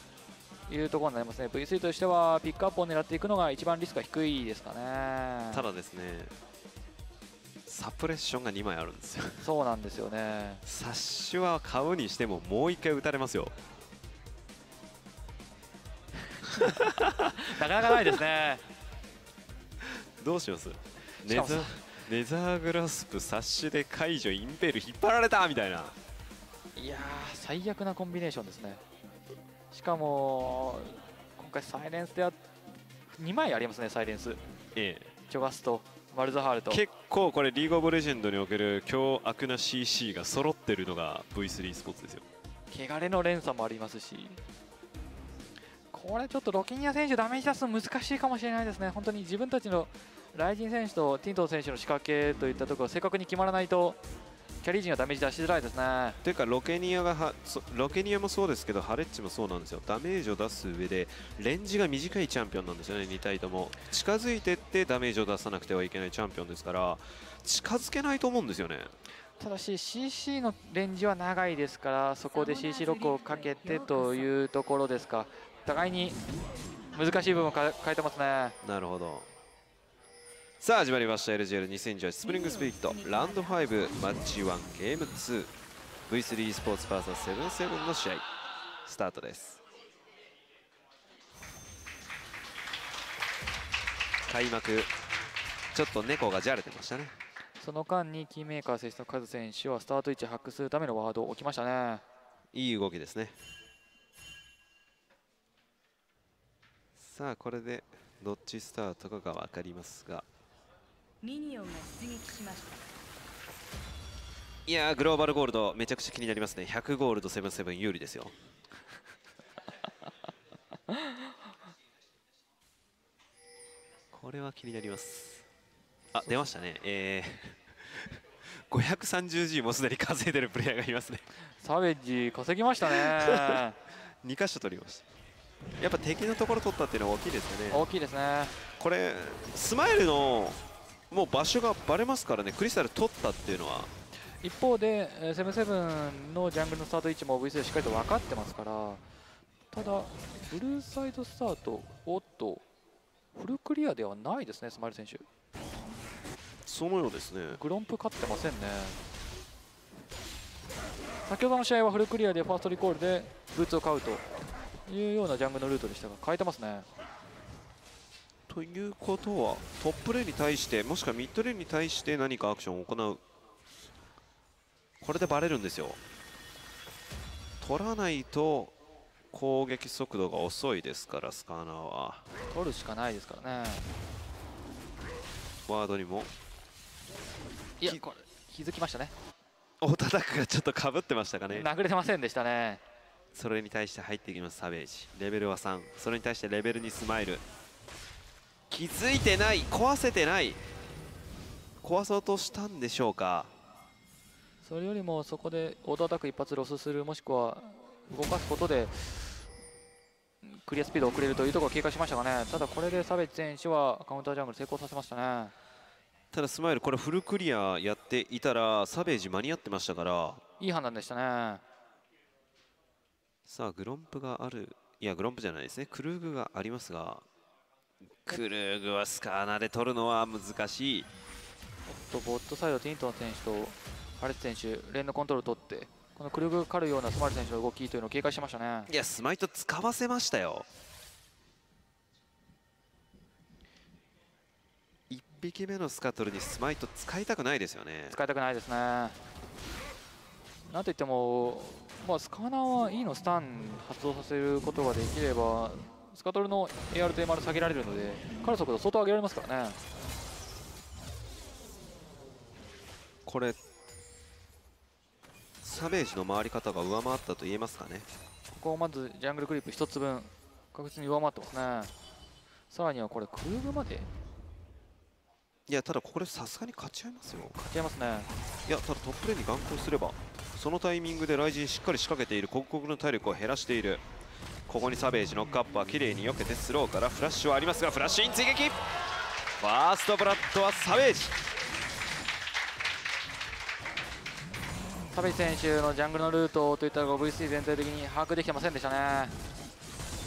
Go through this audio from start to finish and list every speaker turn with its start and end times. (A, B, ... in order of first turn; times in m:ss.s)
0:00.7-0:05.6 A
0:05.5-0:06.3 B
0:07.7-0:09.5 B
0:09.4-0:10.6 A
0:10.7-0:13.5 B
0:16.6-0:18.6 A
0:16.6-0:17.4 B
0:19.8-0:26.0 B
0:21.2-0:21.7 A
0:26.8-0:28.8 A
0:29.7-0:32.4 A
0:33.2-0:34.4 A
0:34.8-0:35.1 B
0:35.3-0:36.8 A
0:36.7-0:42.2 B
0:42.7-0:44.4 A
0:45.9-0:54.0 A
0:54.6-0:56.2 A
0:56.2-1:08.9 B
1:09.4-1:16.2 A
1:12.3-1:14.3 C
1:17.0-1:18.6 A
1:18.6-1:19.3 B
1:20.6-1:25.5 B
1:22.2-1:24.1 C
1:26.1-1:28.2 B
1:28.9-1:29.6 B
1:34.3-1:34.9 B
1:35.7-1:37.2 B
1:37.6-1:42.0 A
1:42.5-1:43.4 B
1:47.0-1:50.3 B
1:51.2-1:52.8 C
1:54.7-1:58.3 B
2:04.1-2:05.5 B
2:06.1-2:11.3 B
2:11.6-2:13.8 A
2:12.8-2:13.6 B
2:14.2-2:15.0 B
2:15.8-2:17.9 B
2:17.7-2:18.6 A
2:18.8-2:20.6 B
2:21.1-2:23.9 B
2:24.4-2:29.0 A
2:29.7-2:32.6 A
2:33.4-2:35.2 A
2:36.7-2:37.6 B
2:37.5-2:39.0 A
2:41.3-2:44.2 A
2:44.9-2:46.9 A
2:48.5-2:53.2 B
2:55.0-2:56.0 B
2:57.6-2:58.8 B
2:59.3-3:02.2 B
3:02.5-3:03.9 A
3:05.7-3:06.3 B
3:07.8-3:09.1 A
3:09.8-3:11.7 B
3:11.5-3:12.8 A
3:13.3-3:17.4 B
3:18.7-3:20.6 B
3:21.8-3:23.5 B
3:24.6-3:29.3 A
3:30.4-3:35.5 A
3:36.3-3:40.4 B
3:40.6-3:41.6 A
3:43.5-3:47.2 B
3:48.2-3:51.1 B
3:51.9-3:58.9 A
3:58.9-4:00.7 B
4:05.1-4:08.2 B
4:08.1-4:09.2 A
4:10.7-4:19.8 A
4:23.3-4:23.6 B
4:25.6-4:28.1 B
4:28.5-4:31.9 A
4:32.7-4:34.1 A
4:35.7-4:37.6 B
4:37.6-4:38.3 A
4:38.7-4:44.0 B
4:44.7-4:48.8 B
4:49.6-4:51.4 B
4:55.1-4:59.4 A